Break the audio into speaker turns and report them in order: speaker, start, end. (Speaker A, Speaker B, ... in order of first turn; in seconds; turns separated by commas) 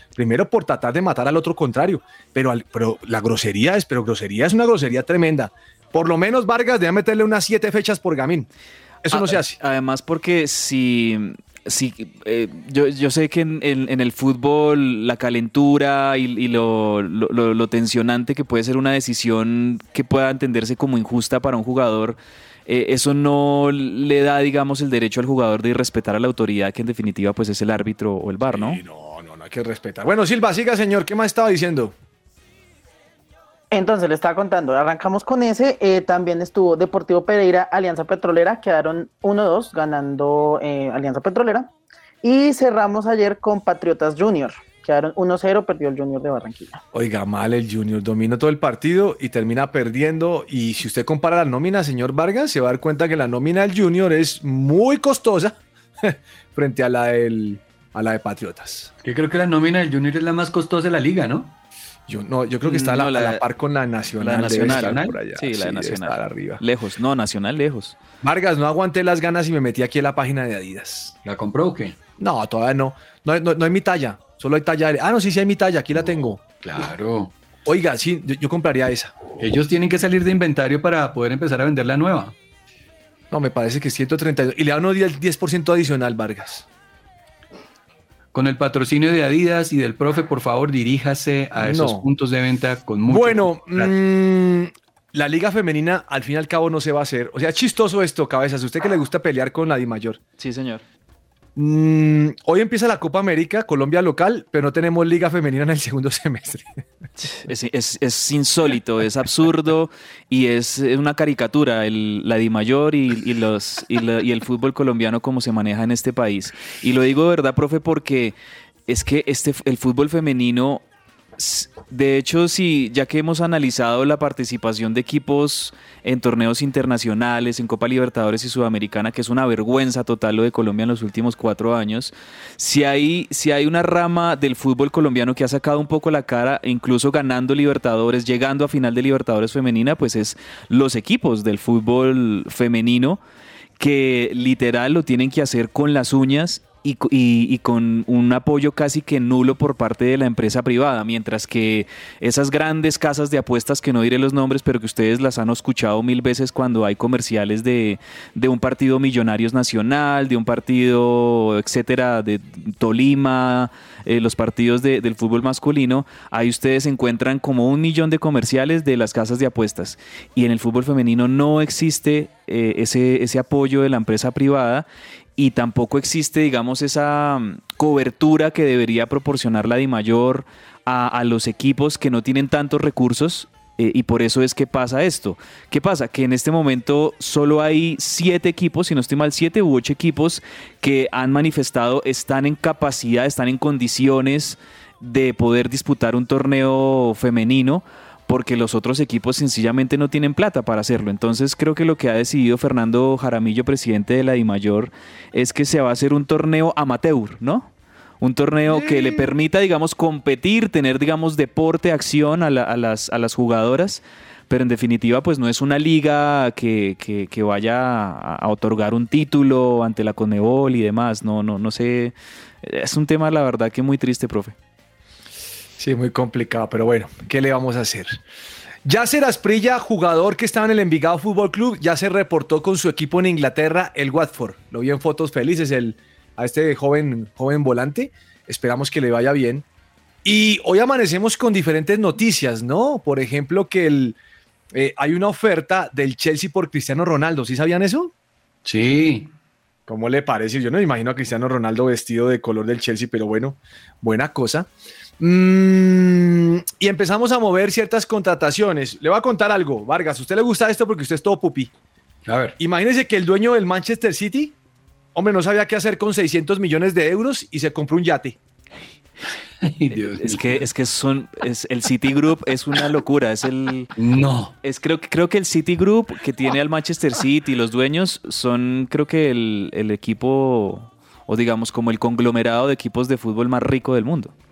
Speaker A: 0.2-8.5, Speaker A: 9.1-9.6, Speaker B: 9.1-28.8, Speaker A: 28.5-31.9, Speaker C: 33.7-41.7, Speaker C: 42.2-46.8, Speaker A: 46.9-58.9, Speaker D: 59.0-61.5, Speaker A: 62.1-66.6, Speaker B: 62.6-63.5, Speaker B: 64.2-68.0, Speaker D: 64.5-65.2, Speaker A: 68.2-71.2, Speaker D: 71.2-72.0, Speaker A: 72.2-76.4, Speaker D: 76.6-77.3, Speaker A: 77.7-79.2, Speaker D: 79.4-82.3, Speaker A: 83.3-86.7, Speaker D: 88.3-93.9, Speaker A: 91.6-92.0, Speaker A: 93.1-100.2, Speaker B: 100.4-100.8, Speaker A: 101.5-106.8, Speaker B: 107.2-118.3, Speaker B: 118.9-120.8, Speaker B: 121.4-143.2, Speaker B: 143.8-174.9, Speaker B: 175.4-207.7, Speaker B: 208.2-224.6, Speaker A: 208.7-209.3, Speaker A: 225.8-228.2, Speaker A: 228.8-239.7, Speaker A: 240.2-244.2, Speaker A: 244.7-248.1, Speaker D: 248.7-249.3, Speaker A: 249.9-254.7, Speaker A: 255.2-261.7, Speaker D: 262.3-262.6, Speaker A: 262.6-264.6, Speaker A: 265.1-268.4, Speaker D: 269.6-270.6, Speaker B: 270.1-273.9, Speaker D: 274.0-274.5, Speaker B: 274.6-284.3